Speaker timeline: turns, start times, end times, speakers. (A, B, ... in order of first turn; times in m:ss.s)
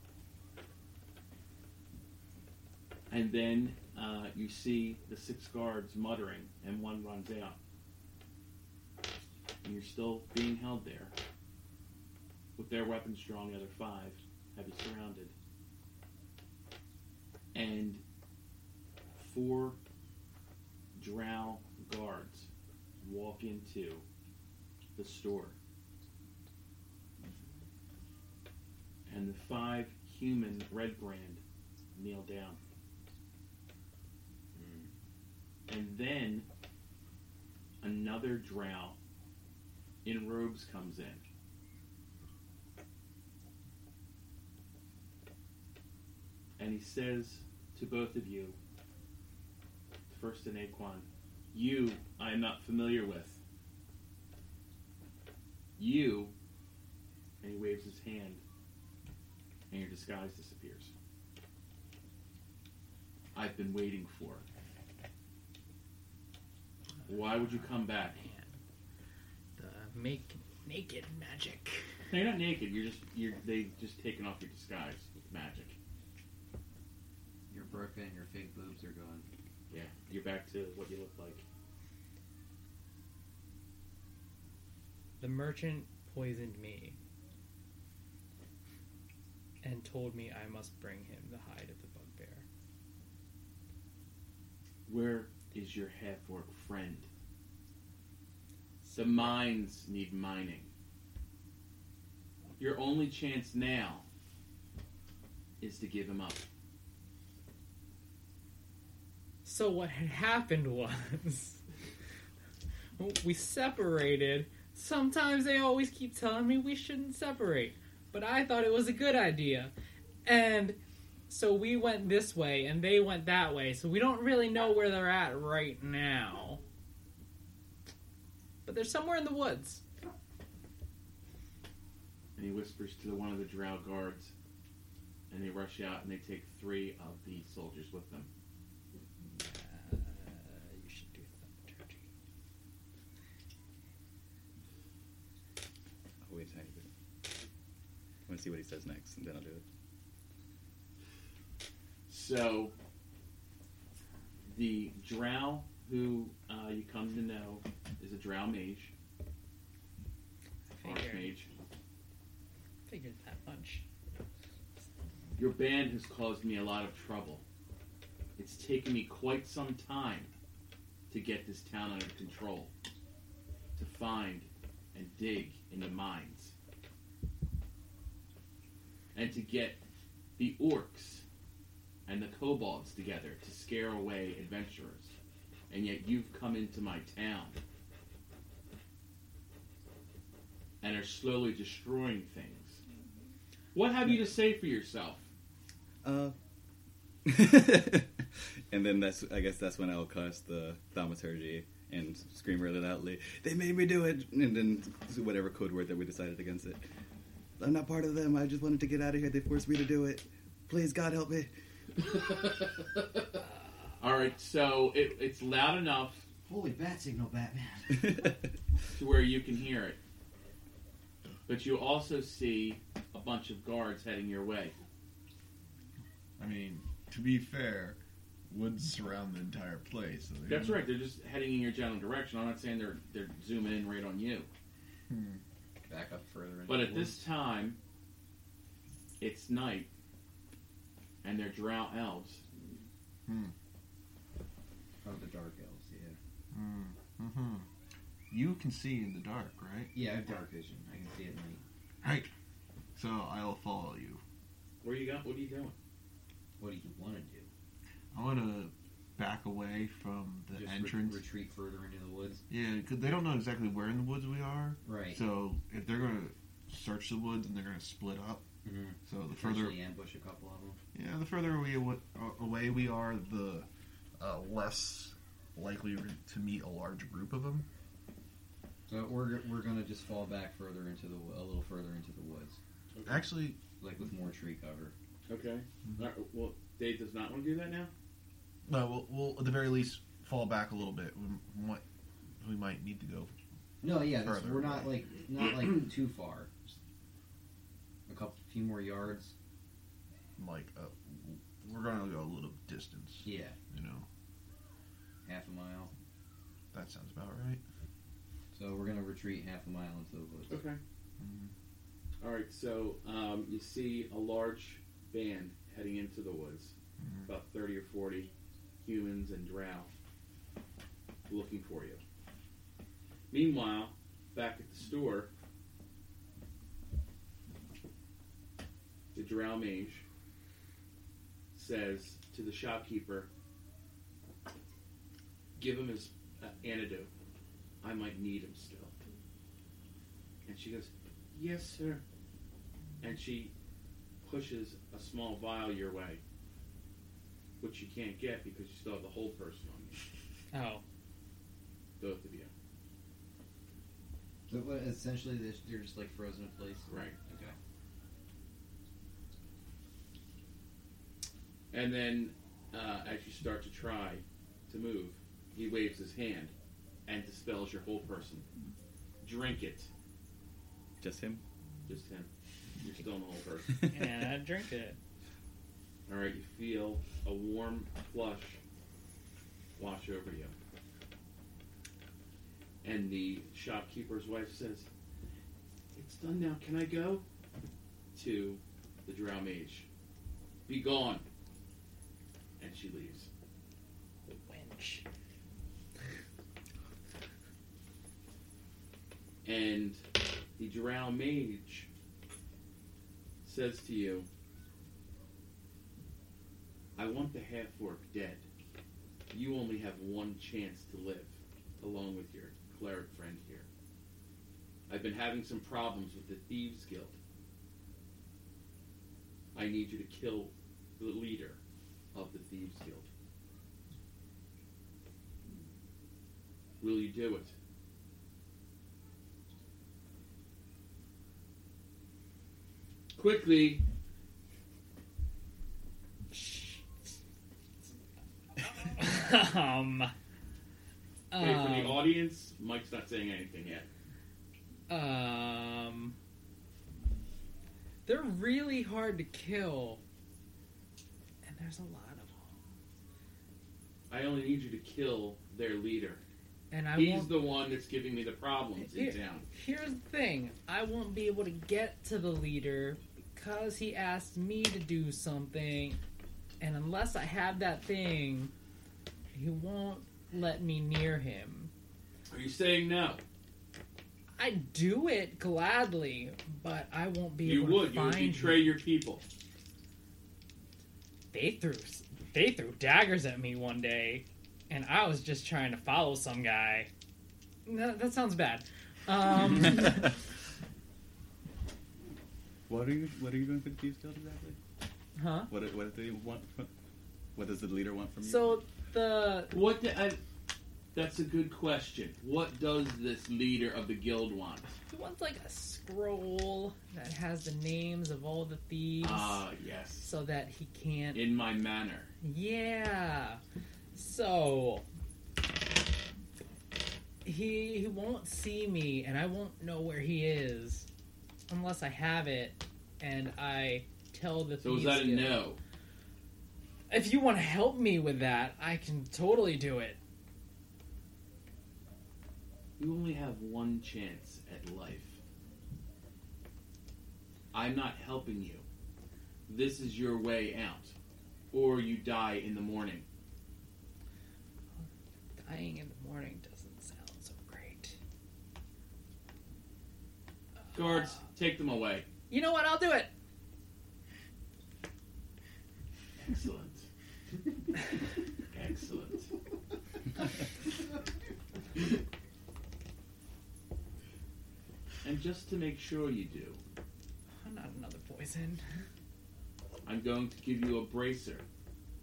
0:03.1-0:07.6 A
0:09.6-0:11.1 A
0:12.6-0:15.3 A
0:17.5-0:18.0 A
0:19.2-0:19.8 A
0:21.0-0:22.5 A
0:23.0-0:24.0 A
0:25.0-0:25.6 A
0:29.1-0:31.4 A
0:31.9-0:32.6 A
0:34.5-0:34.9 B
0:35.7-0:36.5 A
0:37.8-0:39.0 A
0:40.0-0:41.2 A
0:46.6-0:48.6 A
0:50.1-0:53.4 A
0:55.8-0:56.3 A
0:57.4-0:58.4 A
0:59.7-1:00.9 A
1:03.3-1:04.4 A
1:07.0-1:08.6 C
1:07.1-1:08.2 A
1:09.6-1:11.9 C
1:12.1-1:15.8 A
1:17.5-1:19.2 B
1:19.7-1:21.4 A
1:25.2-1:27.0 C
1:29.6-1:32.4 C
1:34.9-1:37.1 A
1:38.8-1:39.4 C
1:39.0-1:40.7 A
1:42.6-1:44.0 A
1:45.6-1:46.4 A
1:49.4-1:51.6 C
1:53.0-1:59.7 C
2:00.2-2:00.8 C
2:01.3-2:06.6 C
2:08.6-2:09.8 C
2:12.4-2:14.3 A
2:15.3-2:18.3 A
2:19.3-2:22.0 C
2:26.2-2:26.9 D
2:28.3-2:29.6 D
2:32.1-2:32.7 A
2:34.5-2:38.9 A
2:40.7-2:41.3 C
2:40.8-2:41.5 A
2:42.9-2:43.8 C
2:45.4-2:47.4 A
2:48.4-2:50.3 A
2:51.1-2:52.7 A
2:53.8-2:56.5 A
2:59.1-2:59.8 A
3:00.4-3:01.2 A
3:02.0-3:05.1 A
3:05.7-3:07.6 A
3:10.8-3:12.8 A
3:13.7-3:15.3 A
3:16.0-3:16.3 D
3:17.2-3:26.8 D
3:27.6-3:31.5 D
3:32.0-3:33.4 A
3:34.0-3:36.3 A
3:36.4-3:38.3 B
3:38.9-3:40.0 A
3:41.5-3:44.7 A
3:46.4-3:48.0 E
3:48.5-3:50.8 E
3:50.5-3:54.5 A
3:55.1-3:55.4 E
3:55.8-3:57.2 B
3:56.7-3:57.8 A
3:59.2-3:59.9 A
4:01.2-4:02.4 A
4:03.3-4:03.5 E
4:05.0-4:06.2 B
4:06.5-4:07.7 E
4:08.3-4:09.9 E
4:09.9-4:11.6 B
4:12.0-4:12.3 E
4:13.0-4:14.2 E
4:14.8-4:15.7 A
4:16.6-4:17.5 B
4:18.1-4:21.2 E
4:20.5-4:22.4 B
4:22.5-4:28.4 E
4:24.8-4:25.2 B
4:28.6-4:30.8 B
4:29.0-4:29.8 E
4:30.9-4:33.7 E
4:34.2-4:37.7 E
4:38.9-4:42.6 B
4:42.9-4:43.3 A
4:43.0-4:43.6 E
4:43.8-4:44.9 B
4:45.3-4:47.9 A
4:48.7-4:51.8 E
4:52.4-4:53.3 E
4:53.8-4:56.7 B
4:54.0-4:55.0 E
4:58.1-4:59.3 B
5:00.4-5:04.1 E
5:03.2-5:03.6 B
5:05.2-5:05.9 B
5:06.7-5:07.6 E
5:08.5-5:10.6 B
5:10.5-5:10.8 A
5:11.2-5:11.5 E
5:12.2-5:16.7 A
5:17.0-5:17.3 E
5:17.2-5:18.3 A
5:18.8-5:19.9 A
5:21.3-5:22.0 A
5:23.3-5:25.3 A
5:29.1-5:30.0 A
5:31.5-5:33.3 A
5:35.6-5:37.1 A
5:37.8-5:38.9 A
5:40.4-5:42.0 A
5:43.0-5:43.5 A
5:44.2-5:46.2 A
5:47.6-5:50.0 A
5:50.5-5:50.8 C
5:52.0-5:52.5 A
5:54.5-5:57.5 B
5:56.9-5:57.2 A
6:01.7-6:06.5 A
6:07.0-6:08.4 A
6:09.2-6:09.9 A
6:11.0-6:11.4 D
6:11.9-6:12.3 A
6:12.8-6:13.8 A
6:13.9-6:15.0 C
6:16.1-6:18.6 A
6:19.8-6:20.5 A
6:22.8-6:24.9 A
6:25.9-6:27.2 A
6:28.1-6:29.9 A
6:30.7-6:31.2 A
6:32.6-6:33.3 A
6:34.3-6:35.0 C
6:39.4-6:40.0 A
6:40.6-6:41.9 A
6:43.4-6:44.3 A
6:47.0-6:48.4 A
6:49.3-6:53.7 A
6:54.9-6:57.2 A
6:59.5-7:01.6 A
7:02.1-7:03.1 A
7:06.8-7:07.5 A
7:13.1-7:13.8 A
7:16.3-7:16.8 C
7:18.8-7:20.1 C
7:21.3-7:22.0 C
7:21.4-7:23.9 A
7:24.9-7:26.1 C
7:28.0-7:30.0 C
7:31.4-7:32.6 C
7:34.1-7:36.2 A
7:36.7-7:37.3 C
7:37.0-7:39.4 A
7:38.8-7:46.0 C
7:46.6-7:48.5 C
7:49.3-7:51.7 C
7:52.3-7:53.2 A
7:54.4-7:58.6 C
7:57.4-7:59.2 A
8:01.3-8:06.9 C
8:07.6-8:10.2 C
8:12.7-8:14.6 D
8:15.2-8:15.5 C
8:15.5-8:16.7 D
8:17.4-8:18.6 D
8:18.2-8:19.5 C
8:19.5-8:20.2 A
8:20.9-8:24.7 A
8:24.9-8:29.4 C
8:29.0-8:30.1 A
8:30.0-8:31.2 C
8:31.1-8:32.1 A
8:32.2-8:33.4 C
8:33.9-8:34.8 C
8:37.2-8:40.9 C
8:41.5-8:45.4 C
8:44.6-8:45.6 A
8:46.9-8:50.0 C
8:52.8-8:55.2 A
8:57.5-8:58.6 A
8:59.5-9:00.9 A
9:01.5-9:03.0 A
9:04.8-9:08.0 C
9:10.7-9:11.2 C
9:10.7-9:12.0 A
9:12.3-9:13.1 C
9:16.2-9:16.9 A
9:18.5-9:19.3 A
9:25.0-9:26.6 A
9:27.4-9:28.6 C
9:29.8-9:31.4 A